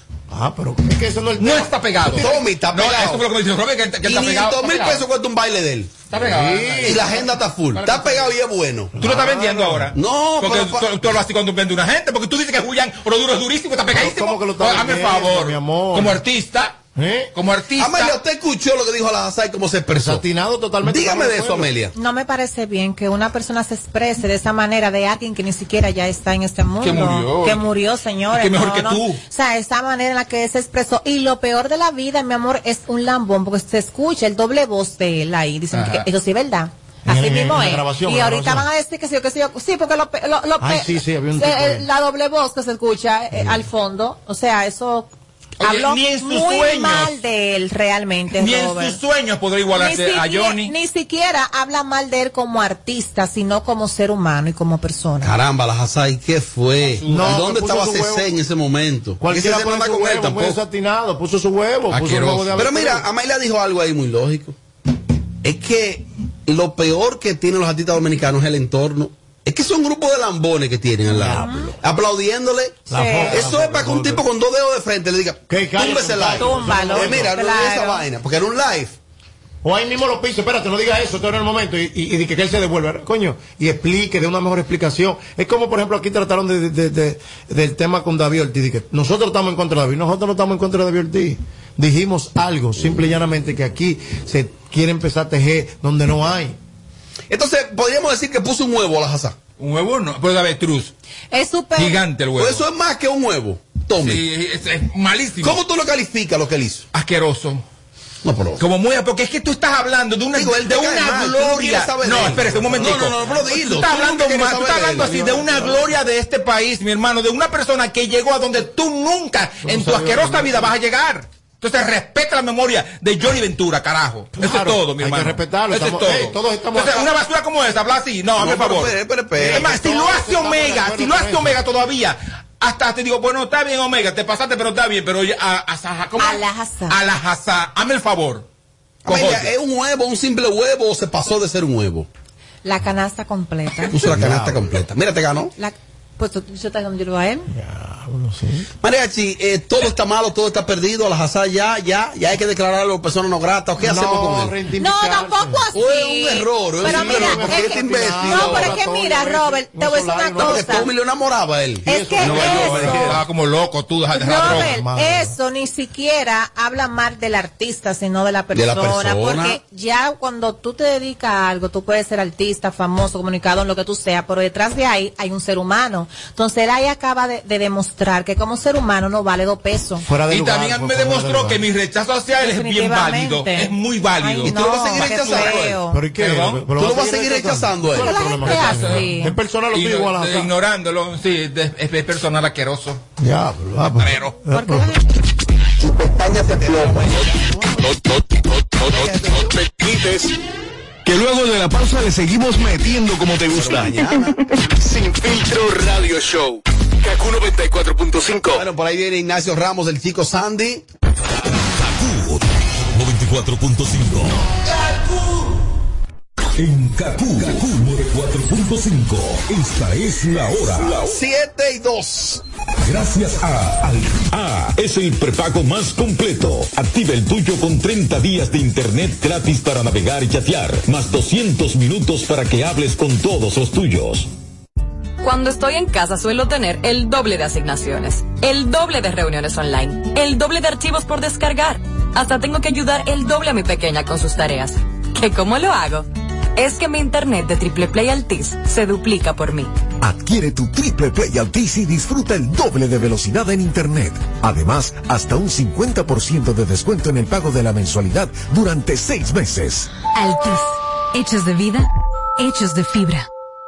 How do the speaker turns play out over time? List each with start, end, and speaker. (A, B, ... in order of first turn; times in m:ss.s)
0:00.3-0:02.4 A
0:01.4-0:05.0 B
0:02.1-0:03.3 C
0:04.0-0:06.0 C
0:06.1-0:07.1 B
0:06.2-0:07.2 A
0:06.8-0:09.0 C
0:07.8-0:08.2 B
0:09.0-0:09.9 A
0:09.0-0:16.8 B
0:09.9-0:11.1 C
0:13.9-0:16.2 A
0:17.0-0:17.3 A
0:17.3-0:18.2 B
0:17.8-0:20.2 C
0:19.9-0:21.7 A
0:20.8-0:21.9 C
0:21.9-0:45.1 D
0:26.8-0:27.7 B
0:28.3-0:29.2 B
0:35.7-0:36.1 B
0:37.0-0:38.7 A
0:40.6-0:41.9 A
0:43.3-0:43.6 A
0:45.6-0:47.1 B
0:45.6-0:49.0 D
0:48.3-0:50.7 B
0:49.7-0:55.3 D
0:55.2-1:00.6 C
0:56.8-0:57.5 B
0:57.0-0:58.4 A
0:59.2-1:03.0 A
1:01.9-1:02.7 B
1:02.6-1:04.6 C
1:05.4-1:19.0 C
1:11.1-1:11.7 A
1:12.9-1:14.2 A
1:12.9-1:13.4 D
1:15.5-1:17.4 A
1:16.4-1:18.0 D
1:19.6-1:36.6 A
1:37.3-1:39.4 C
1:39.6-1:40.9 B
1:41.3-1:42.0 D
1:41.7-1:42.6 B
1:42.4-1:44.2 C
1:44.0-1:45.6 B
1:45.4-1:46.9 C
1:46.9-1:47.6 B
1:48.2-1:48.6 C
1:48.6-2:18.5 B
1:50.3-1:55.6 C
1:59.6-2:00.7 A
2:04.4-2:07.1 A
2:08.4-2:09.7 C
2:09.4-2:11.6 A
2:16.2-2:17.0 D
2:19.0-2:19.5 B
2:19.0-2:22.1 C
2:22.6-2:24.0 D
2:23.9-2:25.5 C
2:24.0-2:24.8 A
2:25.6-2:27.5 D
2:27.5-2:28.7 A
2:28.8-2:34.6 C
2:33.8-2:35.7 A
2:34.8-2:40.9 D
2:35.7-2:38.8 C
2:36.8-2:40.9 A
2:40.4-2:43.1 C
2:41.9-2:43.0 D
2:41.9-2:43.2 A
2:42.2-2:44.8 B
2:44.1-3:00.0 D
2:44.4-2:45.4 A
2:48.5-2:49.6 C
3:00.0-3:01.6 A
3:00.2-3:05.6 B
3:02.4-3:06.1 D
3:04.4-3:05.8 C
3:05.9-3:10.5 A
3:06.1-3:06.7 B
3:06.8-3:08.2 C
3:08.0-3:09.4 D
3:08.3-3:09.1 B
3:09.7-3:13.0 B
3:13.2-3:15.0 A
3:14.0-3:14.4 B
3:14.5-3:15.0 D
3:15.8-3:17.9 C
3:17.8-3:20.3 E
3:18.9-3:19.6 C
3:21.0-3:24.1 E
3:23.5-3:24.4 C
3:24.7-3:28.6 E
3:28.6-3:30.8 C
3:36.6-3:41.0 F
3:41.0-3:42.4 C
3:42.9-3:45.5 F
3:55.2-4:09.7 G
4:10.0-4:19.9 H
4:20.1-4:23.3 I